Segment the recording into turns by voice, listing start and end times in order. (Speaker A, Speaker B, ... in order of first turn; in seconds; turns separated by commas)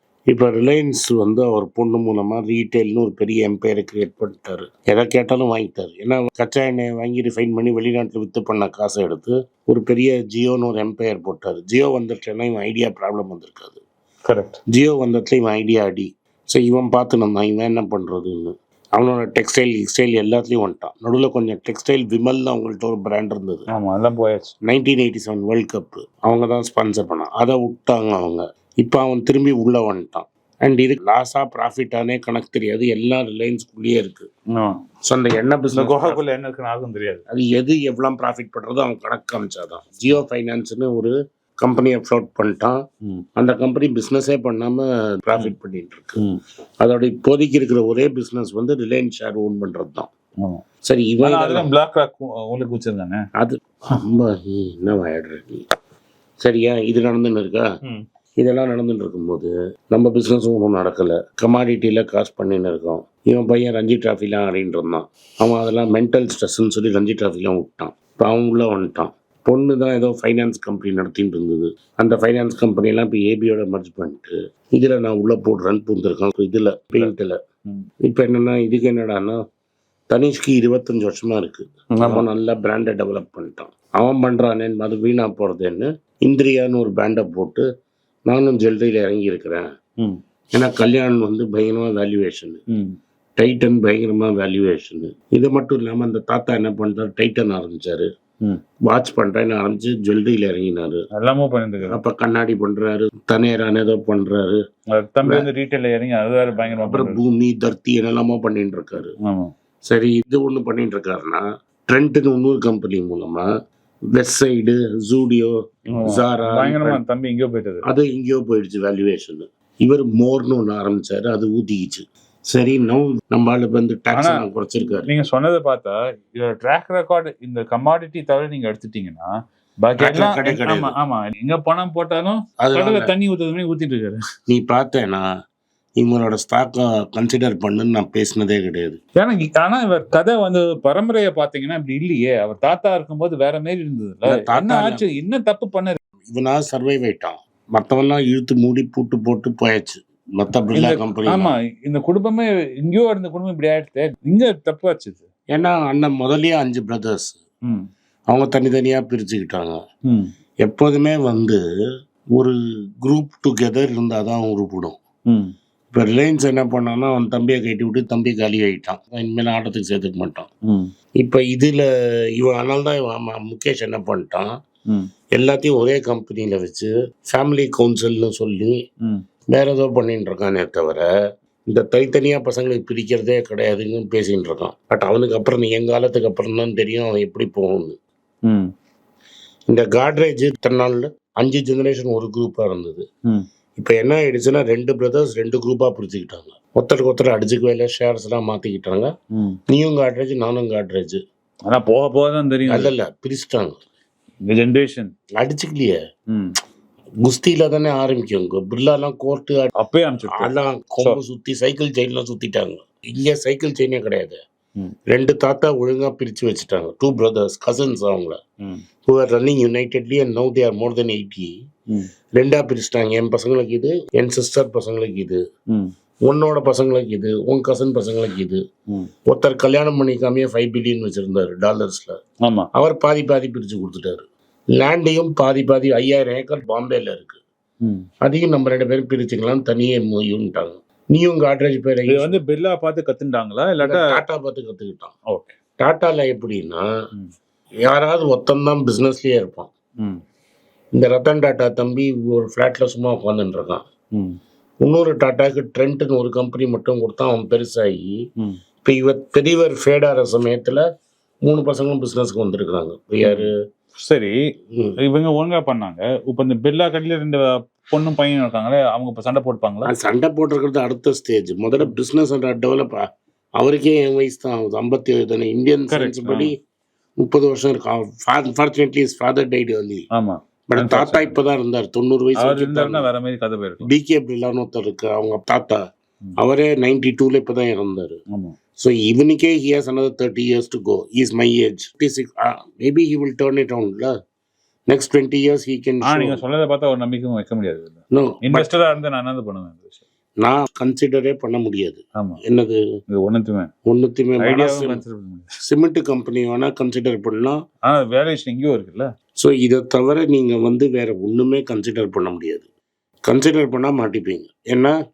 Speaker A: 0.3-13.8, Speaker B: 14.3-14.6, Speaker A: 14.7-23.6, Speaker B: 23.7-24.5, Speaker A: 24.6-34.3, Speaker B: 34.5-34.8, Speaker A: 35.1-36.2, Speaker B: 35.8-37.2, Speaker A: 37.3-42.8, Speaker A: 43.4-46.2, Speaker A: 46.8-50.1, Speaker A: 50.9-51.7, Speaker B: 51.2-53.2, Speaker A: 53.4-55.6, Speaker A: 56.4-57.6, Speaker A: 58.4-77.4, Speaker A: 78.0-79.4, Speaker A: 80.1-87.6, Speaker B: 82.0-82.3, Speaker A: 88.3-89.7, Speaker A: 90.5-92.6, Speaker A: 93.4-98.1, Speaker A: 98.9-101.0, Speaker B: 101.2-102.0, Speaker A: 101.9-104.6, Speaker B: 104.9-107.2, Speaker A: 106.5-109.1, Speaker B: 109.2-109.5, Speaker A: 109.9-113.5, Speaker A: 114.1-115.5, Speaker B: 115.9-117.8, Speaker A: 116.0-117.0, Speaker A: 117.8-125.1, Speaker B: 124.1-124.4, Speaker B: 125.1-129.3, Speaker B: 129.8-134.2, Speaker A: 130.0-130.9, Speaker A: 132.6-133.1, Speaker A: 134.5-135.3, Speaker A: 136.0-139.0, Speaker B: 139.2-146.0, Speaker A: 144.3-145.1, Speaker A: 146.3-151.6, Speaker B: 150.8-155.2, Speaker A: 155.5-157.4, Speaker A: 158.3-159.8, Speaker A: 160.6-161.6, Speaker A: 162.4-165.0, Speaker B: 165.3-165.5, Speaker A: 165.9-170.5, Speaker A: 171.2-174.5, Speaker A: 175.3-178.8, Speaker A: 179.5-181.1, Speaker A: 181.7-188.0, Speaker B: 188.4-188.7, Speaker A: 189.7-193.1, Speaker A: 193.8-199.1, Speaker A: 199.7-201.2, Speaker B: 201.7-202.9, Speaker A: 202.7-203.8, Speaker B: 204.5-205.1, Speaker A: 205.4-206.0, Speaker A: 207.2-209.7, Speaker B: 209.8-211.2, Speaker A: 210.3-214.4, Speaker A: 215.1-218.4, Speaker A: 219.1-221.5, Speaker A: 222.3-225.4, Speaker A: 226.2-228.6, Speaker A: 229.3-232.2, Speaker B: 232.4-232.7, Speaker A: 232.7-237.4, Speaker A: 238.2-242.4, Speaker B: 242.1-244.1, Speaker A: 243.8-245.1, Speaker B: 245.3-245.6, Speaker A: 245.8-246.8, Speaker A: 247.8-249.7, Speaker A: 251.0-253.8, Speaker A: 254.8-258.1, Speaker A: 258.8-260.8, Speaker A: 261.4-263.5, Speaker B: 263.2-263.5, Speaker B: 264.0-264.3, Speaker B: 265.0-269.9, Speaker A: 269.9-273.0, Speaker A: 273.6-276.5, Speaker B: 275.9-276.5, Speaker A: 277.2-280.1, Speaker B: 280.1-281.4, Speaker A: 280.7-283.1, Speaker B: 282.4-283.8, Speaker A: 283.8-285.8, Speaker A: 286.4-288.2, Speaker A: 288.8-294.1, Speaker A: 294.9-296.4, Speaker B: 296.0-300.0, Speaker A: 298.1-298.7, Speaker A: 300.4-302.8, Speaker B: 303.1-303.7, Speaker A: 303.9-305.0, Speaker B: 304.4-305.5, Speaker A: 305.6-307.6, Speaker B: 307.9-309.1, Speaker A: 309.4-312.7, Speaker A: 313.3-315.0